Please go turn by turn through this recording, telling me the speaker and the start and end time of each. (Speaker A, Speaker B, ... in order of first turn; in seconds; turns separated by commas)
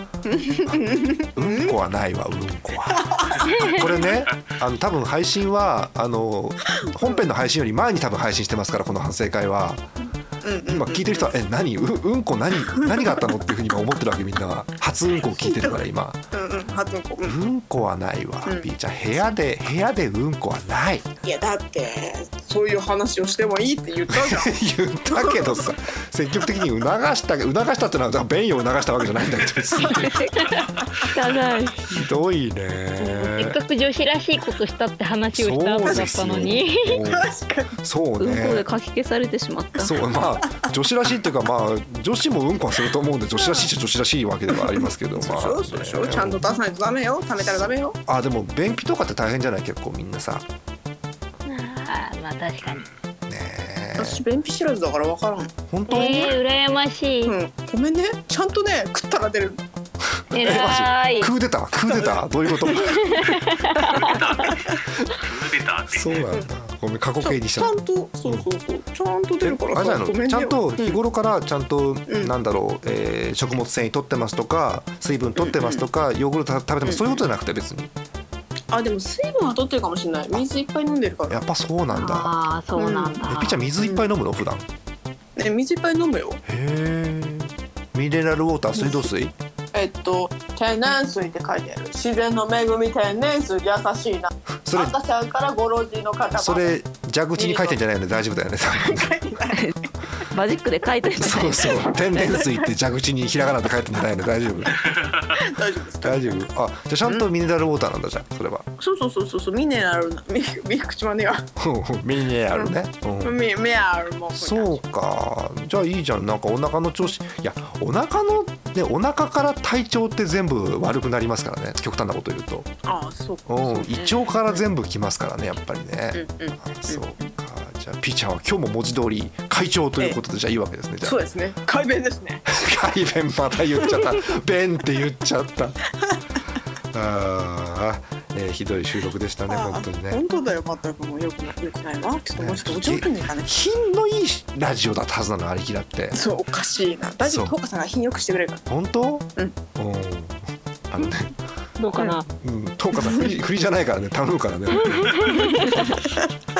Speaker A: 0.2-1.8, Speaker B: 1.4-9.8, Speaker A: 10.4-11.3, Speaker B: 10.7-16.2, Speaker A: 15.2-17.4, Speaker B: 17.2-21.1, Speaker A: 21.2-25.7, Speaker B: 24.1-30.3, Speaker A: 29.7-31.1, Speaker C: 31.0-31.9, Speaker B: 31.9-33.6, Speaker D: 33.0-37.0, Speaker B: 35.3-37.3, Speaker A: 35.8-36.1, Speaker A: 36.9-37.8, Speaker B: 37.8-38.7, Speaker C: 38.2-39.9, Speaker B: 39.8-46.4, Speaker A: 43.3-43.7, Speaker A: 45.1-48.0, Speaker B: 47.4-50.5, Speaker D: 51.5-52.8, Speaker E: 52.6-52.9, Speaker B: 53.3-54.2, Speaker A: 54.0-56.3, Speaker B: 55.7-56.4, Speaker D: 55.9-57.3, Speaker A: 57.2-59.6, Speaker B: 60.3-63.3, Speaker D: 60.3-61.3, Speaker A: 61.9-64.8, Speaker D: 63.0-64.5, Speaker E: 63.9-66.3, Speaker B: 65.9-67.7, Speaker A: 67.2-71.0, Speaker B: 69.4-77.9, Speaker A: 72.1-72.3, Speaker A: 75.4-75.9, Speaker A: 76.8-77.2, Speaker A: 78.7-81.4, Speaker B: 81.3-82.3, Speaker D: 81.9-83.6, Speaker A: 82.7-83.2, Speaker B: 83.3-84.7, Speaker A: 83.8-84.1, Speaker A: 85.4-86.4, Speaker B: 86.5-89.3, Speaker A: 88.8-89.1, Speaker A: 89.7-96.7, Speaker B: 94.7-94.9, Speaker B: 96.3-99.1, Speaker A: 97.3-97.8, Speaker A: 98.7-99.9, Speaker C: 100.3-101.7, Speaker B: 101.2-104.8, Speaker A: 102.1-102.7, Speaker A: 104.8-106.5, Speaker B: 106.0-108.7, Speaker A: 108.8-111.5, Speaker B: 111.6-113.4, Speaker A: 112.5-114.8, Speaker B: 114.3-122.7, Speaker A: 122.8-124.7, Speaker B: 123.5-131.2, Speaker A: 126.1-127.2, Speaker A: 131.0-132.4, Speaker B: 132.4-135.8, Speaker B: 136.9-140.2, Speaker A: 139.5-143.5, Speaker B: 142.3-146.2, Speaker A: 146.1-148.7, Speaker B: 147.2-147.5, Speaker B: 148.7-151.3, Speaker D: 151.8-152.2, Speaker B: 152.3-155.5, Speaker D: 155.2-155.8, Speaker A: 155.3-156.2